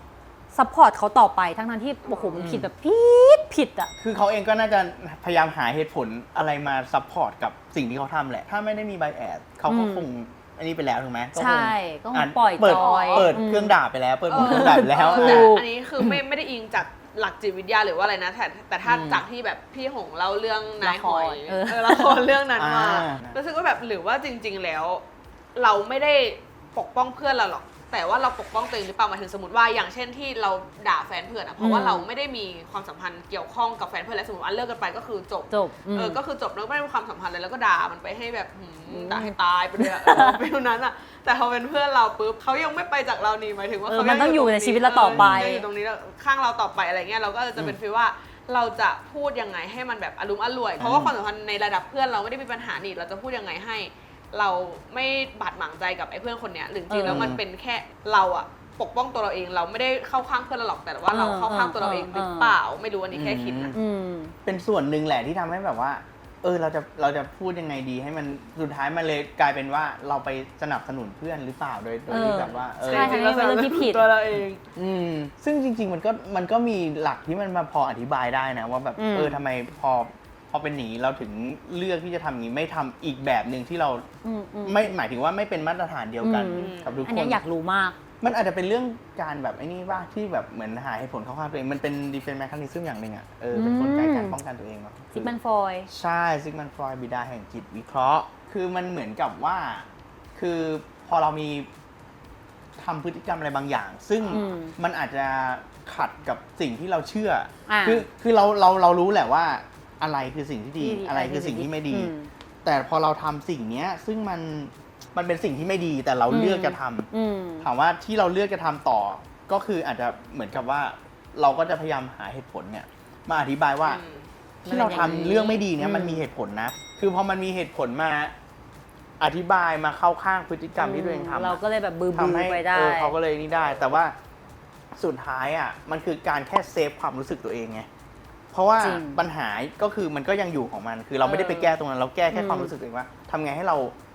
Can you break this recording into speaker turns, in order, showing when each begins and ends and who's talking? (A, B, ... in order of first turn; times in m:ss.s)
0:00.5-0:03.9 A
0:02.0-0:02.4 B
0:02.4-0:02.7 C
0:04.0-0:16.2 C
0:09.7-0:10.0 A
0:11.3-0:13.8 A
0:12.7-0:13.4 B
0:14.3-0:25.0 B
0:14.3-0:15.6 A
0:18.8-0:19.2 C
0:20.8-0:22.3 A
0:22.6-0:23.4 C
0:25.5-1:03.8 B
0:31.6-0:32.0 A
0:35.5-0:36.2 A
0:38.9-0:40.4 A
0:43.9-0:45.6 A
0:45.1-0:45.4 C
0:50.8-0:51.1 C
0:56.9-0:57.3 A
0:57.0-0:57.4 C
1:01.1-1:02.6 A
1:03.1-1:03.8 C
1:03.7-1:04.3 A
1:04.4-1:13.2 C
1:12.1-1:14.1 A
1:12.2-1:14.6 B
1:14.8-1:24.0 C
1:19.0-1:19.4 A
1:24.2-1:24.9 A
1:24.6-1:27.4 C
1:26.2-1:28.0 A
1:26.5-1:27.1 B
1:28.2-1:35.3 C
1:33.5-1:34.4 A
1:35.1-1:35.9 A
1:35.9-1:41.7 C
1:42.8-1:52.1 C
1:44.3-1:44.7 A
1:47.7-1:48.0 A
1:50.8-1:52.3 A
1:52.6-1:57.1 C
1:56.3-1:57.7 A
1:57.6-2:04.0 C
2:03.8-2:04.3 B
2:04.6-2:08.3 C
2:04.6-2:06.2 A
2:09.2-2:11.6 C
2:10.8-2:13.1 A
2:12.1-2:14.1 C
2:14.9-2:17.9 C
2:18.5-2:23.9 C
2:18.8-2:19.2 A
2:21.2-2:21.8 A
2:22.3-2:22.7 A